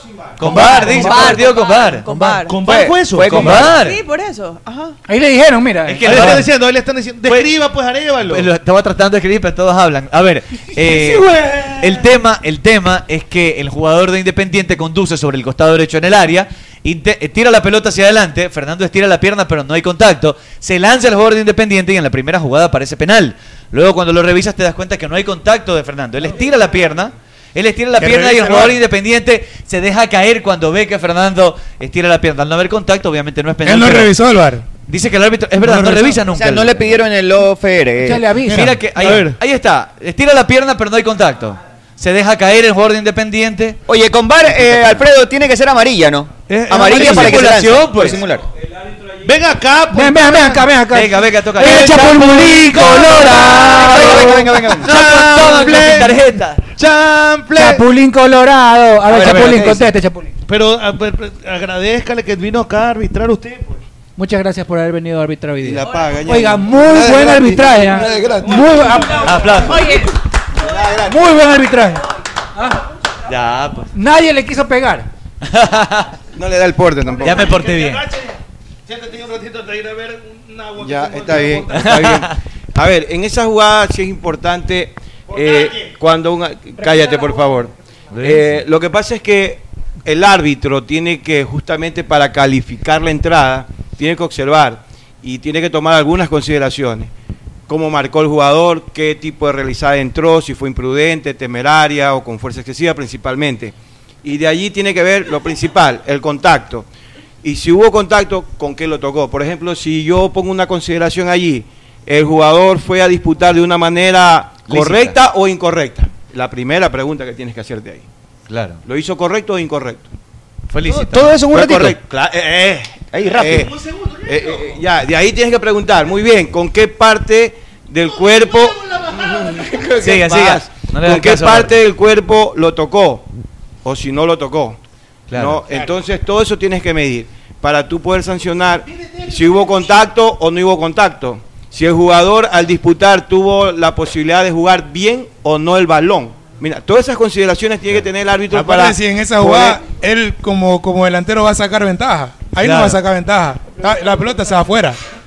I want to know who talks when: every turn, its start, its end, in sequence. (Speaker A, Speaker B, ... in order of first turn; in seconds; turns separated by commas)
Speaker A: 0.4-2.4, Speaker B: 0.4-1.2, Speaker C: 0.5-2.6, Speaker D: 0.6-1.3, Speaker B: 2.5-3.8, Speaker E: 2.6-3.7, Speaker A: 3.2-4.0, Speaker C: 3.7-5.0, Speaker D: 5.1-6.4, Speaker A: 5.8-6.5, Speaker B: 6.0-8.5, Speaker A: 7.2-7.5, Speaker A: 8.2-34.1, Speaker B: 10.8-12.0, Speaker F: 28.0-28.8, Speaker F: 33.6-34.7, Speaker A: 34.9-37.0, Speaker F: 35.6-36.2, Speaker E: 36.3-38.3, Speaker D: 38.0-38.8, Speaker F: 38.5-39.1, Speaker A: 38.5-43.8, Speaker B: 38.9-39.4, Speaker E: 43.9-48.4, Speaker B: 46.5-47.7, Speaker A: 46.7-48.2, Speaker B: 49.2-50.7, Speaker D: 49.9-54.4, Speaker A: 50.9-53.2, Speaker B: 51.6-56.2, Speaker E: 53.7-54.9, Speaker A: 54.8-56.6, Speaker B: 56.7-57.9, Speaker D: 57.5-60.3, Speaker E: 59.1-59.9, Speaker B: 60.5-63.8, Speaker D: 64.2-69.3, Speaker G: 65.6-68.7, Speaker C: 65.8-66.2, Speaker B: 67.8-69.9, Speaker A: 69.2-70.0, Speaker C: 69.6-70.2, Speaker G: 70.6-71.2, Speaker D: 71.0-72.8, Speaker A: 73.2-73.9, Speaker D: 73.9-75.1, Speaker A: 75.4-76.1, Speaker G: 76.3-77.5, Speaker B: 77.2-78.3, Speaker A: 77.2-78.0, Speaker B: 78.9-82.0, Speaker G: 80.8-97.1, Speaker A: 81.7-82.4, Speaker B: 85.3-85.9, Speaker A: 88.1-88.5, Speaker G: 97.7-106.9, Speaker G: 107.4-118.0, Speaker A: 114.7-115.1, Speaker A: 118.5-118.8, Speaker G: 118.8-120.0, Speaker A: 120.7-121.4, Speaker E: 120.9-122.0, Speaker G: 121.4-123.7, Speaker E: 123.1-123.7, Speaker B: 123.5-124.8, Speaker G: 124.2-133.2, Speaker B: 128.1-129.9, Speaker A: 130.0-131.7, Speaker G: 133.8-134.8, Speaker A: 135.3-135.6, Speaker G: 135.3-149.8, Speaker F: 148.5-155.0, Speaker A: 152.6-153.0